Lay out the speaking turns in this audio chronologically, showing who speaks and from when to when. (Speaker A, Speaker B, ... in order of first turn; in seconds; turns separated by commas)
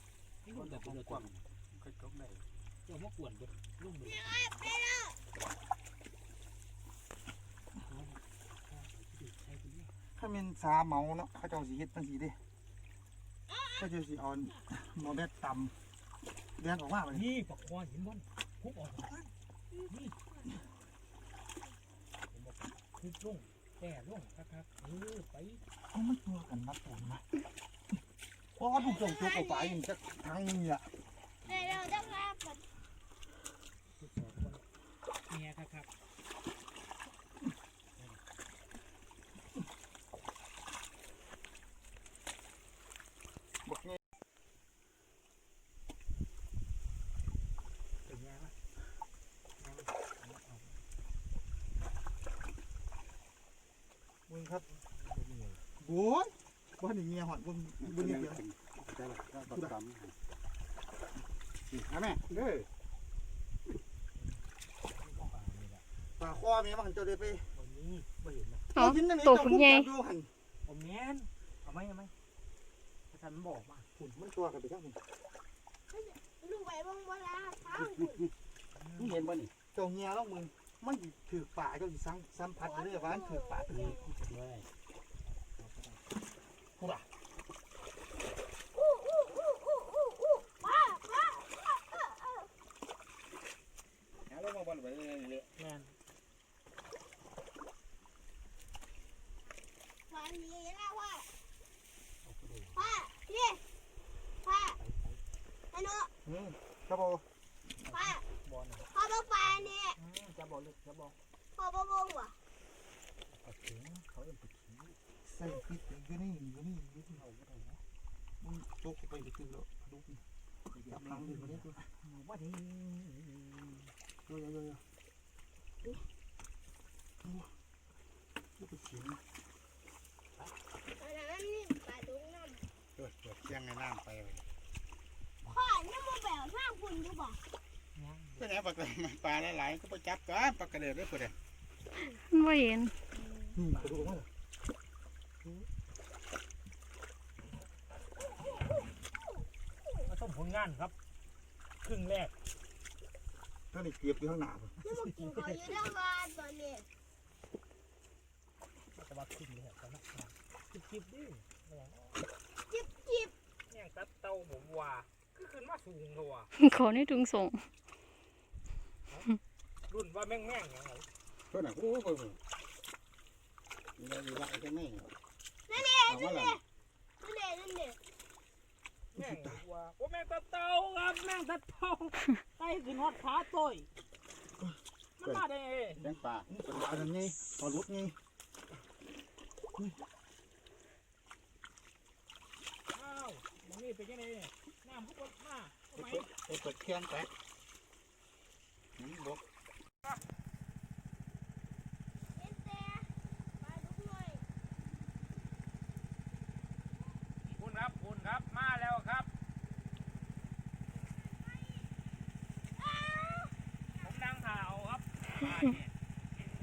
Speaker A: 0.4-1.4, Speaker B: 0.5-2.4, Speaker A: 2.9-4.4, Speaker C: 4.0-5.2, Speaker A: 7.8-9.9, Speaker D: 10.2-12.4, Speaker C: 13.5-13.9, Speaker D: 13.8-15.7, Speaker D: 16.6-17.2, Speaker A: 17.1-19.2, Speaker C: 19.7-20.6, Speaker A: 19.9-20.2, Speaker A: 22.3-25.6, Speaker D: 25.9-27.2, Speaker D: 28.6-30.9, Speaker C: 28.7-29.8, Speaker A: 31.5-32.2, Speaker C: 31.5-32.6, Speaker A: 34.0-34.6, Speaker A: 35.3-35.9, Speaker D: 43.7-44.0, Speaker A: 48.0-48.5, Speaker A: 49.6-50.8, Speaker D: 54.3-54.6, Speaker A: 54.5-55.6, Speaker D: 55.8-58.4, Speaker B: 57.8-60.1, Speaker B: 61.7-62.3, Speaker D: 62.3-62.6, Speaker A: 64.2-64.4, Speaker A: 65.0-65.8, Speaker D: 66.2-67.5, Speaker A: 67.5-68.7, Speaker E: 68.8-69.9, Speaker D: 68.8-70.3, Speaker A: 70.7-72.1, Speaker A: 73.1-73.9, Speaker D: 74.0-75.0, Speaker C: 75.9-78.3, Speaker B: 77.8-78.3, Speaker A: 78.8-79.2, Speaker B: 79.0-79.5, Speaker D: 79.7-84.0, Speaker C: 82.6-84.1, Speaker B: 84.0-84.7, Speaker A: 85.6-86.0, Speaker D: 86.8-87.1, Speaker C: 88.7-92.5, Speaker B: 94.3-95.5, Speaker A: 95.6-95.9, Speaker C: 100.1-101.3, Speaker A: 102.2-102.9, Speaker C: 102.8-103.6, Speaker C: 104.4-104.8, Speaker A: 104.8-105.2, Speaker C: 105.7-106.1, Speaker D: 106.2-107.2, Speaker A: 107.8-108.9, Speaker C: 107.9-108.2, Speaker C: 108.9-110.0, Speaker A: 109.5-111.2, Speaker C: 111.6-112.4, Speaker A: 113.3-115.0, Speaker D: 115.3-117.2, Speaker A: 117.1-117.8, Speaker D: 118.4-120.2, Speaker A: 120.7-123.8, Speaker D: 120.9-121.9, Speaker D: 124.3-124.8, Speaker D: 127.2-127.5, Speaker D: 128.6-129.2, Speaker C: 131.0-132.6, Speaker B: 133.0-134.4, Speaker C: 135.5-137.4, Speaker A: 137.9-138.5, Speaker B: 138.4-141.3, Speaker E: 142.1-142.9, Speaker C: 143.2-143.5, Speaker D: 143.5-144.3, Speaker A: 143.7-144.1, Speaker A: 150.1-150.9, Speaker A: 151.8-152.3, Speaker D: 153.7-154.7, Speaker C: 154.8-156.9, Speaker A: 155.2-155.7, Speaker A: 159.0-162.2, Speaker C: 162.7-163.3, Speaker A: 163.7-166.5, Speaker E: 166.6-167.7, Speaker A: 169.9-171.1, Speaker B: 171.5-172.4, Speaker B: 174.0-175.1, Speaker C: 175.7-176.6, Speaker B: 176.1-176.6, Speaker C: 177.2-178.0, Speaker A: 179.1-183.9, Speaker D: 179.2-179.6, Speaker A: 185.2-186.0, Speaker B: 186.0-187.1, Speaker D: 186.5-188.2, Speaker A: 192.9-196.3, Speaker B: 196.0-197.3, Speaker B: 199.0-199.4, Speaker C: 202.3-204.4, Speaker A: 207.5-209.3, Speaker C: 211.4-211.9, Speaker C: 212.8-214.1, Speaker A: 214.0-215.9